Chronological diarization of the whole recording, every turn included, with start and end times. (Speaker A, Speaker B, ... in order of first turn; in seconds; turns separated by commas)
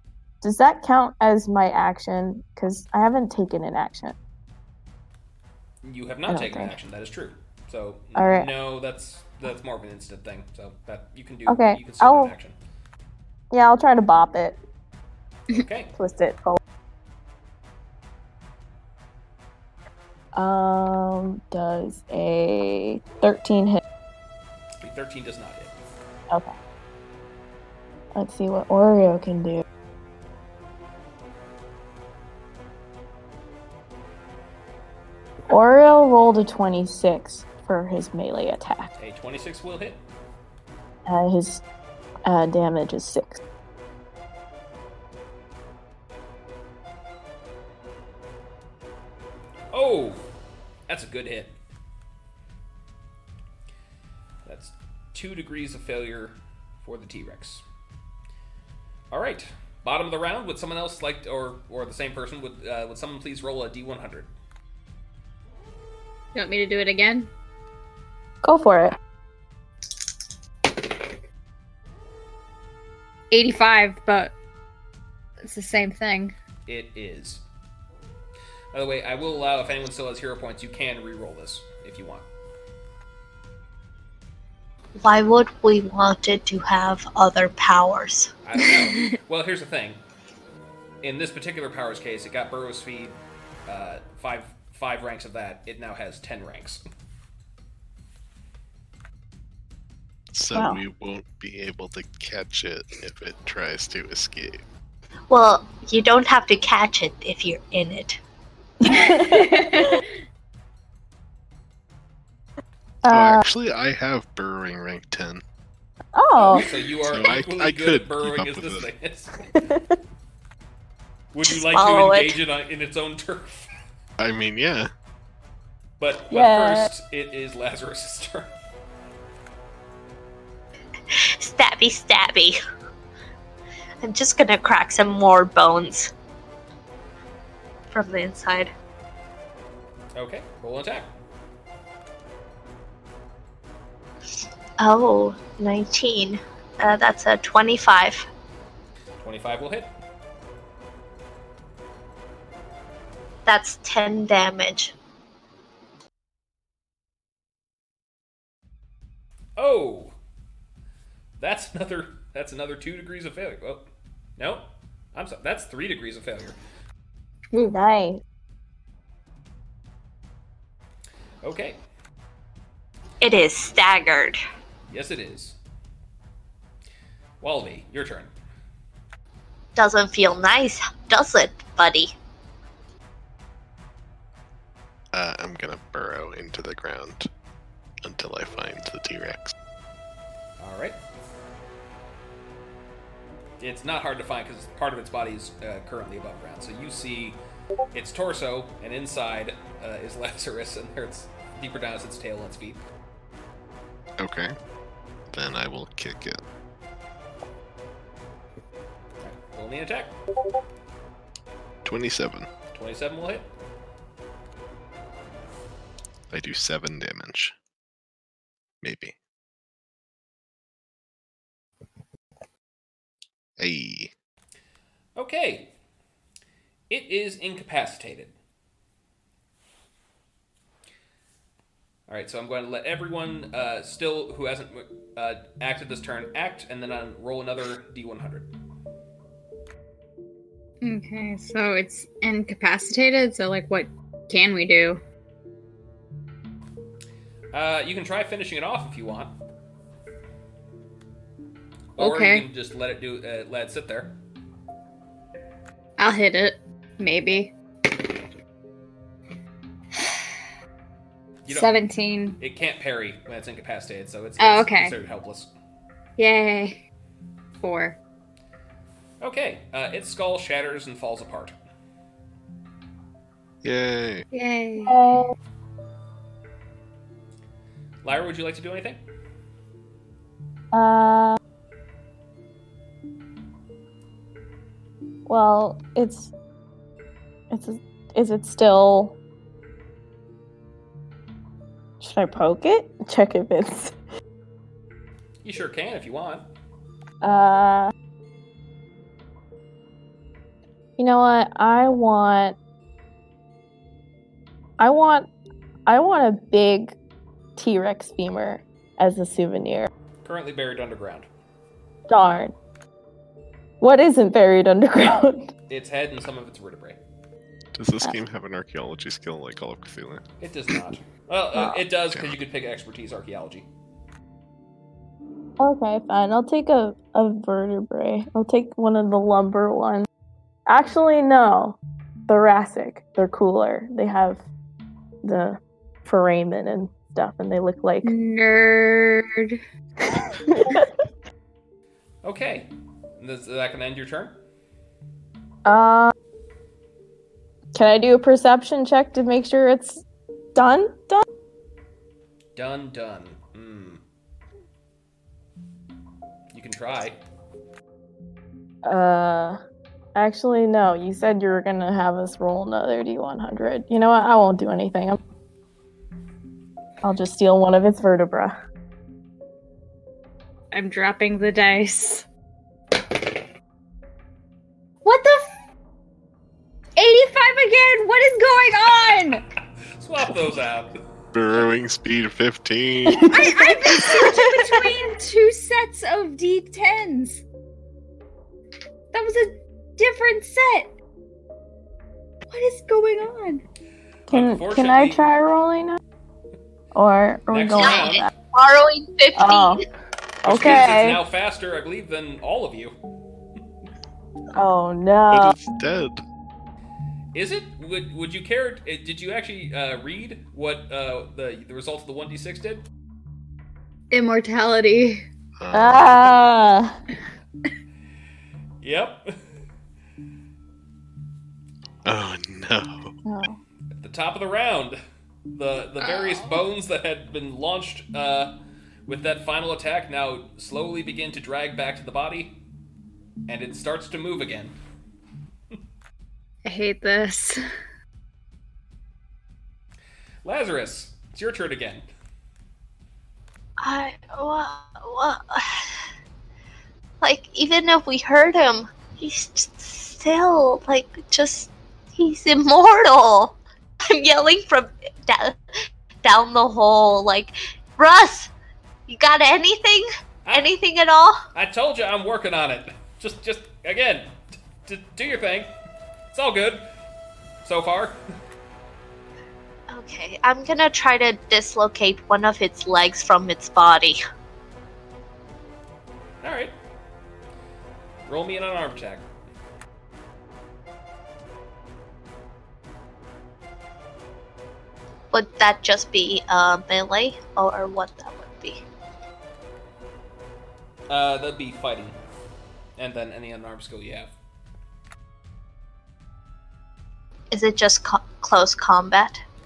Speaker A: 0.4-4.2, Speaker B: 5.8-12.6, Speaker A: 6.3-6.8, Speaker A: 8.2-8.5, Speaker A: 11.5-12.3, Speaker A: 13.5-14.6, Speaker B: 15.5-15.9, Speaker A: 16.0-16.6, Speaker A: 20.4-23.8, Speaker B: 24.8-25.7, Speaker A: 28.1-29.6, Speaker A: 35.5-38.9, Speaker B: 39.0-40.0, Speaker A: 41.1-41.6, Speaker A: 42.2-43.4, Speaker B: 49.7-50.3, Speaker B: 50.9-51.6, Speaker B: 54.5-57.6, Speaker B: 59.1-64.3, Speaker C: 66.3-67.3, Speaker A: 68.4-69.0, Speaker C: 73.3-74.3, Speaker C: 75.4-76.3, Speaker B: 76.7-77.4, Speaker B: 78.7-82.3, Speaker D: 85.0-88.3, Speaker B: 88.4-90.0, Speaker B: 91.0-96.8, Speaker E: 100.3-104.6, Speaker A: 100.5-100.8, Speaker D: 105.3-108.2, Speaker A: 108.8-110.0, Speaker C: 109.4-109.8, Speaker A: 113.0-113.4, Speaker E: 113.1-115.4, Speaker A: 116.2-116.7, Speaker B: 116.4-119.4, Speaker E: 117.1-118.9, Speaker A: 119.5-120.0, Speaker B: 121.3-123.7, Speaker D: 121.4-122.4, Speaker E: 124.2-124.9, Speaker B: 126.0-128.6, Speaker A: 126.3-126.9, Speaker D: 131.1-132.6, Speaker D: 134.0-136.1, Speaker D: 137.9-138.7, Speaker B: 140.2-141.1, Speaker D: 144.8-148.3, Speaker B: 149.2-149.9, Speaker D: 153.5-154.9, Speaker B: 159.6-160.1, Speaker B: 161.4-166.6, Speaker A: 167.7-168.2, Speaker B: 171.4-171.8, Speaker D: 173.2-174.4, Speaker B: 174.9-175.6, Speaker B: 177.4-178.3, Speaker D: 179.8-182.2, Speaker E: 185.1-187.3, Speaker E: 188.0-189.6, Speaker B: 190.6-191.0, Speaker B: 193.6-197.4, Speaker B: 197.9-202.8, Speaker E: 204.2-204.5, Speaker E: 205.3-206.4, Speaker B: 209.2-210.2, Speaker E: 211.8-212.5, Speaker B: 212.7-213.5, Speaker E: 216.3-217.5, Speaker E: 218.8-219.2, Speaker E: 223.6-224.1, Speaker B: 225.2-225.7, Speaker B: 226.9-228.3, Speaker B: 232.1-238.5, Speaker C: 240.8-245.0, Speaker B: 247.5-249.3, Speaker B: 252.0-254.2, Speaker C: 252.0-252.5, Speaker C: 256.0-257.5, Speaker B: 261.4-261.7, Speaker C: 261.5-262.4, Speaker B: 262.4-265.5, Speaker C: 264.4-264.9, Speaker C: 266.2-266.8, Speaker C: 267.6-268.0, Speaker B: 269.2-271.6, Speaker E: 273.6-274.3, Speaker C: 274.3-275.1, Speaker A: 274.8-275.3, Speaker B: 278.0-279.0, Speaker A: 280.7-281.4, Speaker A: 285.3-286.3, Speaker A: 287.5-289.2, Speaker A: 292.0-293.9, Speaker B: 295.4-296.5, Speaker A: 297.2-297.9, Speaker A: 301.0-302.6, Speaker A: 304.8-305.3, Speaker A: 305.9-307.0, Speaker A: 307.6-309.9, Speaker B: 310.2-311.3, Speaker A: 312.1-312.5, Speaker A: 313.8-315.5, Speaker B: 315.7-317.0, Speaker E: 317.8-320.2, Speaker B: 320.4-323.7, Speaker A: 325.6-330.1, Speaker A: 330.7-334.4, Speaker A: 335.2-338.1, Speaker C: 338.0-339.6, Speaker A: 340.2-340.9, Speaker B: 342.2-344.4, Speaker A: 345.6-346.1, Speaker A: 347.7-350.0, Speaker A: 350.6-351.2, Speaker B: 352.6-354.0, Speaker B: 356.5-357.2, Speaker A: 358.9-359.6, Speaker A: 360.1-365.2, Speaker A: 367.0-368.6, Speaker C: 370.7-372.3, Speaker C: 375.0-375.5, Speaker C: 377.0-379.5, Speaker B: 380.0-380.9, Speaker E: 381.3-383.4, Speaker A: 383.1-384.1, Speaker C: 383.3-387.4, Speaker C: 389.1-390.9, Speaker C: 392.5-393.6, Speaker B: 394.3-395.2, Speaker A: 394.3-396.0, Speaker A: 396.9-398.3, Speaker B: 397.5-398.3, Speaker D: 397.8-399.8, Speaker A: 399.4-399.8, Speaker A: 400.4-401.2, Speaker B: 400.4-402.9, Speaker A: 404.5-405.6, Speaker E: 405.3-406.2, Speaker B: 407.3-412.8, Speaker C: 414.1-415.2, Speaker E: 415.6-416.4, Speaker A: 415.7-417.0, Speaker B: 418.8-419.4, Speaker E: 422.1-423.1, Speaker A: 423.2-423.6, Speaker B: 423.9-428.5, Speaker C: 426.0-426.6, Speaker B: 429.1-432.6, Speaker B: 433.5-434.8, Speaker C: 436.6-437.6, Speaker B: 440.4-442.1, Speaker D: 443.8-445.9, Speaker D: 447.2-453.6, Speaker D: 454.1-458.5, Speaker D: 459.1-461.4, Speaker B: 460.4-460.7, Speaker B: 461.5-465.7, Speaker B: 466.3-466.9, Speaker B: 467.6-468.2, Speaker D: 469.9-474.2, Speaker B: 476.4-476.7, Speaker B: 478.3-479.3, Speaker D: 485.3-488.9, Speaker B: 491.1-492.2, Speaker B: 493.0-494.3, Speaker D: 497.5-499.4